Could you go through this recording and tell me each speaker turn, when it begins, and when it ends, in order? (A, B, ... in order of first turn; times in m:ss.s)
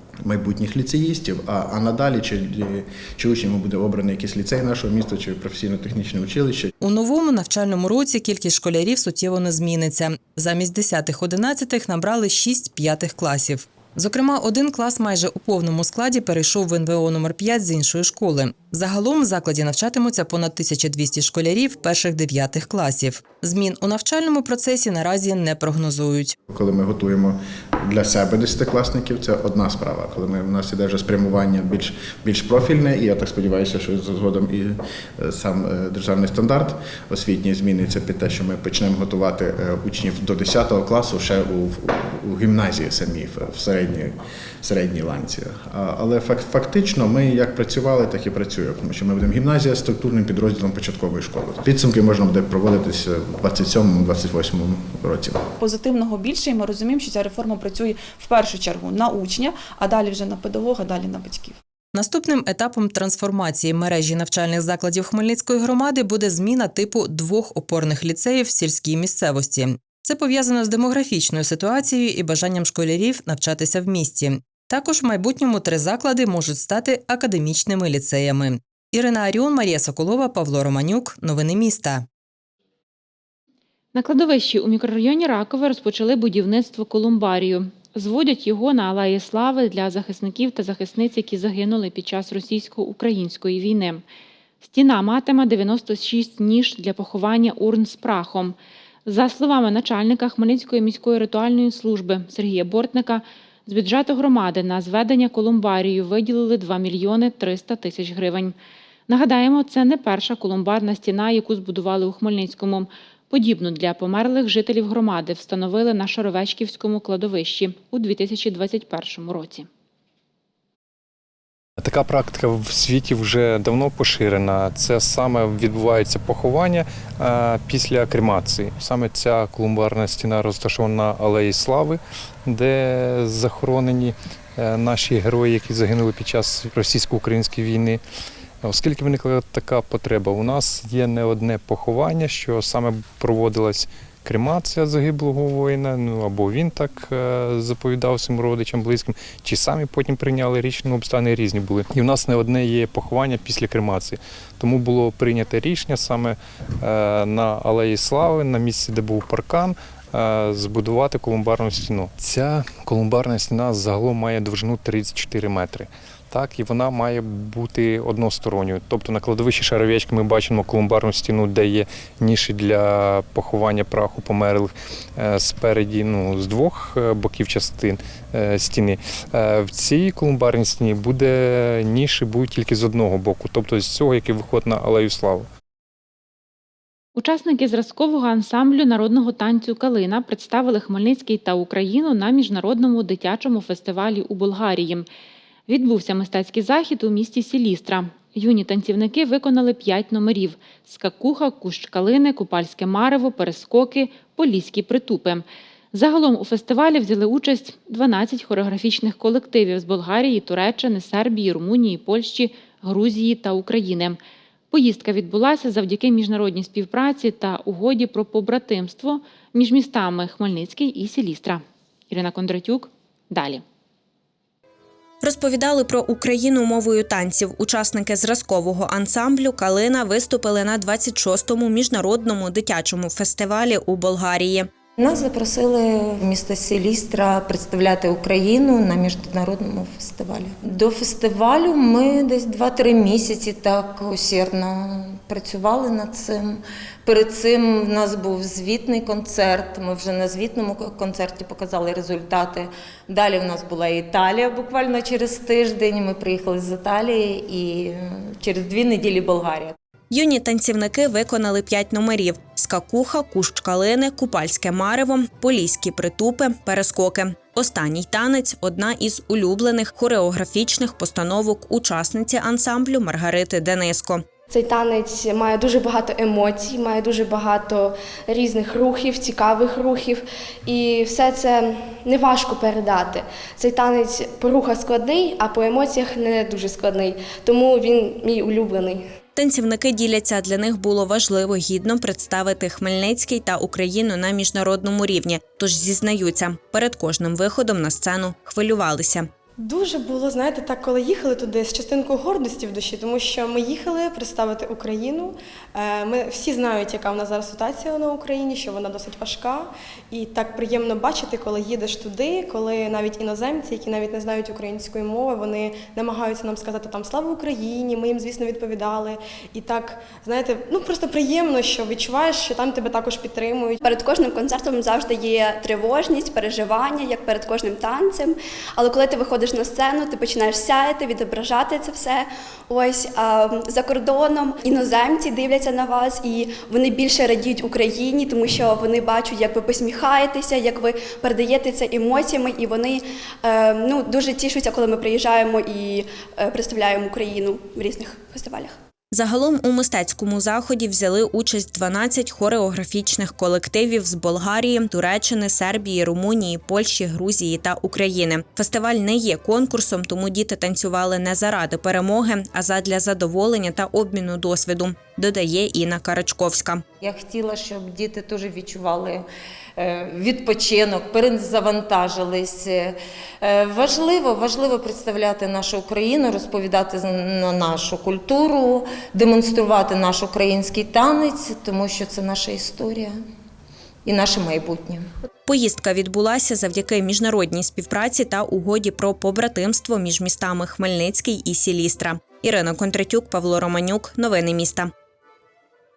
0:00.2-0:06.7 A
0:06.8-0:26.4 B
0:26.5-0:27.4 A
0:27.9-0:55.4 A
0:55.6-1:01.6 C
1:01.9-1:22.1 B
1:24.0-1:34.0 D
1:34.6-1:48.6 D
1:49.1-1:59.7 D
2:01.8-2:18.0 E
2:18.6-3:05.5 E
3:07.2-3:15.1 D
3:15.7-3:34.2 D
3:34.7-3:43.6 D
3:45.2-3:54.7 F
3:55.0-4:19.7 G
4:20.1-4:34.2 F
4:34.5-4:49.0 H
4:49.4-4:59.3 F
4:59.7-5:23.8 I
5:23.8-5:48.8 J
5:49.1-6:06.8 F
6:07.0-6:09.2 G
6:09.8-6:23.2 G
6:24.0-6:25.1 G
6:25.5-6:34.9 F